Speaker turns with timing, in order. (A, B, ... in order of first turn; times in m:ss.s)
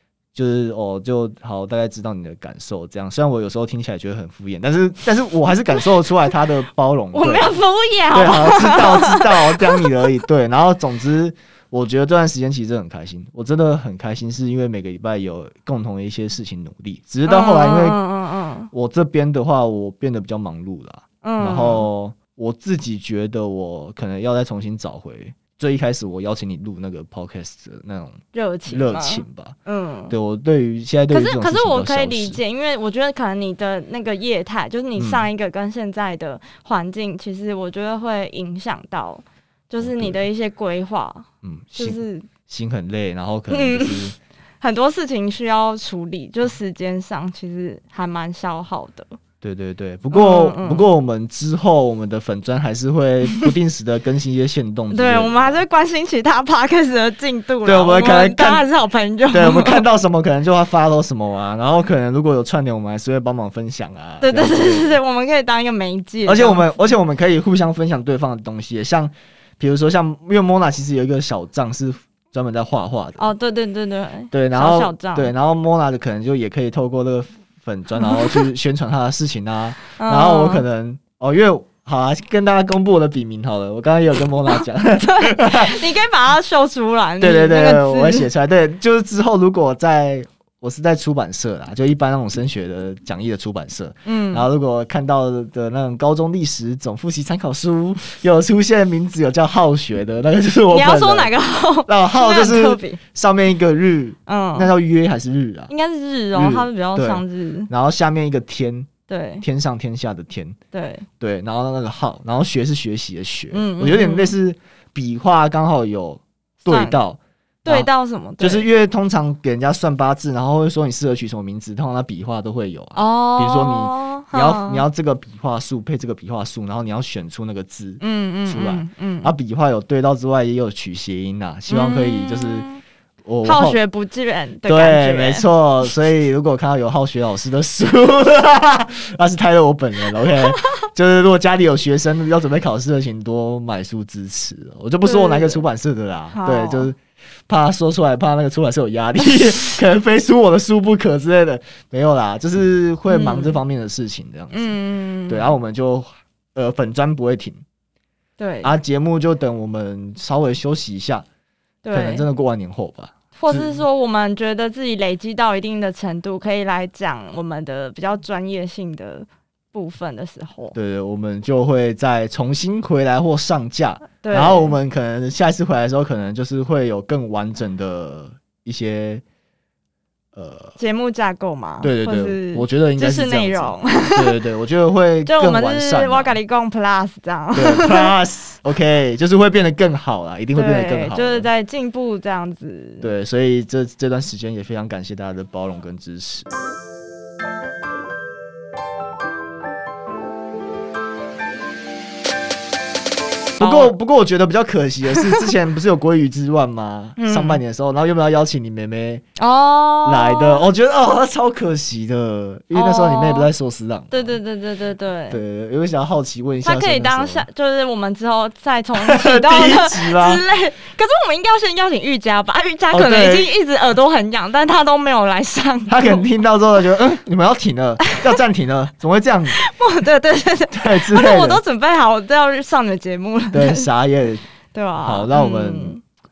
0:00.3-0:07.5 A
0:07.1-0:10.1 B
0:08.1-0:18.0 A
0:17.2-0:18.7 B
0:18.7-0:29.6 A
0:21.2-0:21.9 B
0:28.3-0:30.1 B
0:30.1-0:32.4 A
0:31.1-0:42.3 B
0:35.0-0:35.2 A
0:39.8-0:40.2 A
0:41.4-0:44.1 A
0:43.5-0:49.2 B
0:49.4-0:55.6 A
0:50.1-0:50.9 B
0:54.9-0:59.8 B
0:57.6-0:58.6 A
0:59.3-1:05.0 A
1:04.2-1:06.7 B
1:06.2-1:13.3 A
1:13.2-1:15.3 B
1:14.3-1:25.8 A
1:18.0-1:18.4 B
1:20.0-1:20.6 B
1:24.5-1:28.3 B
1:27.2-1:41.3 A
1:34.0-1:34.4 B
1:40.7-1:43.0 B
1:41.8-1:45.7 A
1:44.3-1:44.7 B
1:45.7-1:47.7 B
1:46.3-1:48.9 A
1:49.1-1:49.4 B
1:49.4-1:50.6 A
1:50.7-1:51.1 B
1:51.2-1:57.9 A
1:53.5-1:54.3 B
1:56.6-1:57.0 B
1:57.6-1:58.7 B
1:58.4-2:12.7 A
2:02.9-2:04.8 B
2:08.0-2:09.3 B
2:11.7-2:12.8 B
2:13.2-2:13.8 A
2:13.4-2:15.5 B
2:14.6-2:27.0 A
2:25.0-2:25.6 B
2:26.3-2:26.9 B
2:27.5-2:34.7 A
2:33.1-2:33.6 B
2:34.5-2:35.5 B
2:35.3-2:37.6 A
2:38.4-2:38.7 B
2:38.6-2:41.2 A
2:41.8-2:42.2 B
2:41.9-2:43.8 A
2:43.3-2:50.7 B
2:50.7-2:59.2 A
2:54.2-2:54.8 B
3:00.3-3:00.8 A
3:00.8-3:04.4 B
3:01.8-3:06.4 A
3:05.2-3:08.1 B
3:07.5-3:11.5 A
3:10.5-3:13.1 B
3:13.0-3:16.5 A
3:23.6-3:29.2 A
3:23.6-3:23.9 B
3:27.2-3:27.6 B
3:29.4-3:30.6 B
3:30.0-3:34.4 A
3:32.7-3:33.5 B
3:34.1-3:35.4 B
3:35.3-3:37.4 A
3:36.6-3:46.3 B
3:39.0-3:40.4 A
3:42.9-3:43.5 A
3:45.9-3:49.6 A
3:49.5-3:53.9 B
3:50.7-3:51.6 A
3:53.5-3:54.4 A
3:54.7-3:56.0 B
3:55.0-3:56.0 A